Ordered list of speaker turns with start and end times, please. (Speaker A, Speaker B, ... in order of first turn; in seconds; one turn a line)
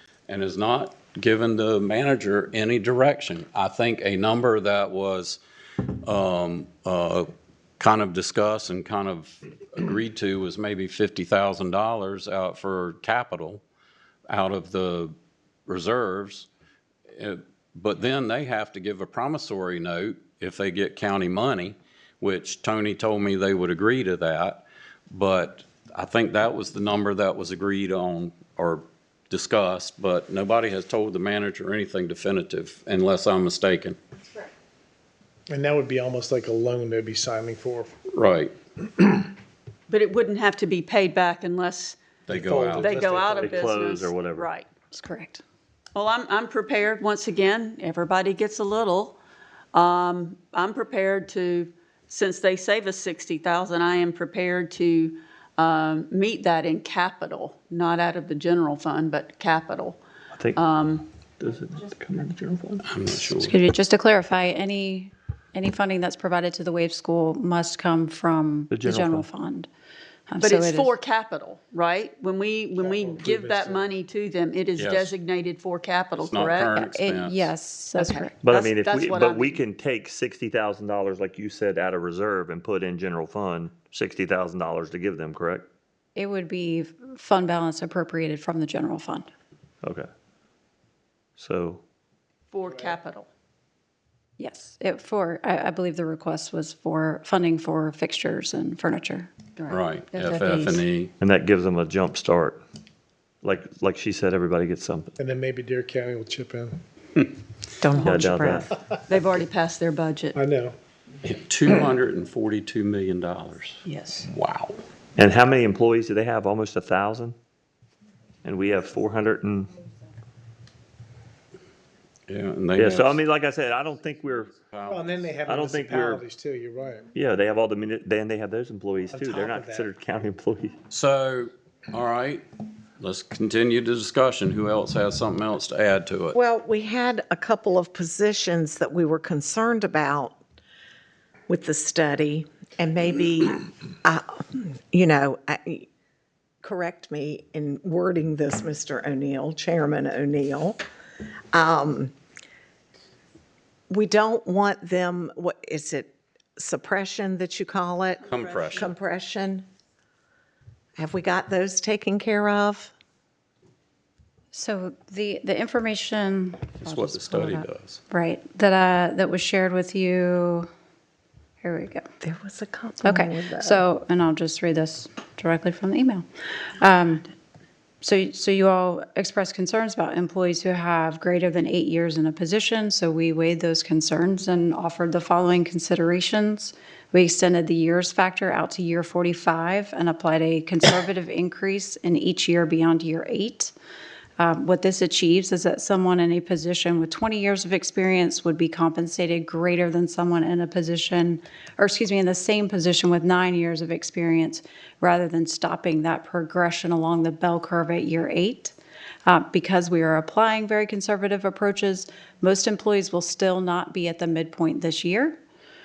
Speaker A: 0.3-5.4
Speaker A: 6.0-7.3
Speaker A: 7.8-13.6
Speaker A: 14.3-15.1
Speaker A: 15.7-16.5
Speaker A: 17.1-34.0
Speaker B: 35.5-37.9
Speaker A: 38.1-38.5
Speaker C: 39.9-42.0
Speaker A: 42.3-42.9
Speaker B: 42.3-43.6
Speaker D: 42.7-44.5
Speaker C: 42.8-44.7
Speaker E: 44.9-45.4
Speaker C: 45.9-49.2
Speaker C: 49.7-60.0
Speaker D: 60.4-60.6
Speaker C: 60.5-61.0
Speaker D: 61.4-62.9
Speaker A: 62.8-63.5
Speaker E: 63.3-69.7
Speaker D: 68.7-69.2
Speaker E: 70.3-71.0
Speaker C: 70.4-76.8
Speaker B: 72.8-73.9
Speaker A: 74.8-75.1
Speaker A: 76.2-77.5
Speaker E: 76.7-78.3
Speaker C: 78.0-79.6
Speaker D: 78.4-85.7
Speaker E: 86.2-89.3
Speaker D: 89.8-90.1
Speaker D: 91.4-91.8
Speaker C: 92.5-93.3
Speaker E: 94.4-99.3
Speaker C: 99.5-100.9
Speaker A: 99.7-101.1
Speaker D: 101.2-102.6
Speaker D: 103.4-105.2
Speaker B: 105.2-106.8
Speaker F: 107.8-108.7
Speaker C: 107.9-108.3
Speaker D: 108.0-108.7
Speaker C: 109.1-110.4
Speaker B: 110.3-110.8
Speaker A: 111.2-114.8
Speaker C: 113.8-114.3
Speaker D: 115.2-117.3
Speaker D: 118.4-119.8
Speaker A: 122.3-123.2
Speaker D: 122.8-124.5
Speaker A: 124.6-125.3
Speaker B: 124.9-127.1
Speaker D: 125.5-126.2
Speaker D: 127.1-130.8
Speaker B: 129.1-129.9
Speaker A: 130.9-132.4
Speaker A: 133.0-136.3
Speaker F: 136.3-140.4
Speaker F: 141.5-145.9
Speaker F: 146.6-150.8
Speaker F: 151.5-152.1
Speaker F: 153.9-159.7
Speaker A: 158.3-158.9
Speaker F: 161.0-162.9
Speaker E: 164.5-170.7
Speaker A: 166.8-168.0
Speaker E: 171.6-172.0
Speaker F: 172.2-173.8
Speaker E: 173.0-177.2
Speaker E: 178.0-193.7
Speaker E: 194.4-208.7
Speaker E: 209.2-215.4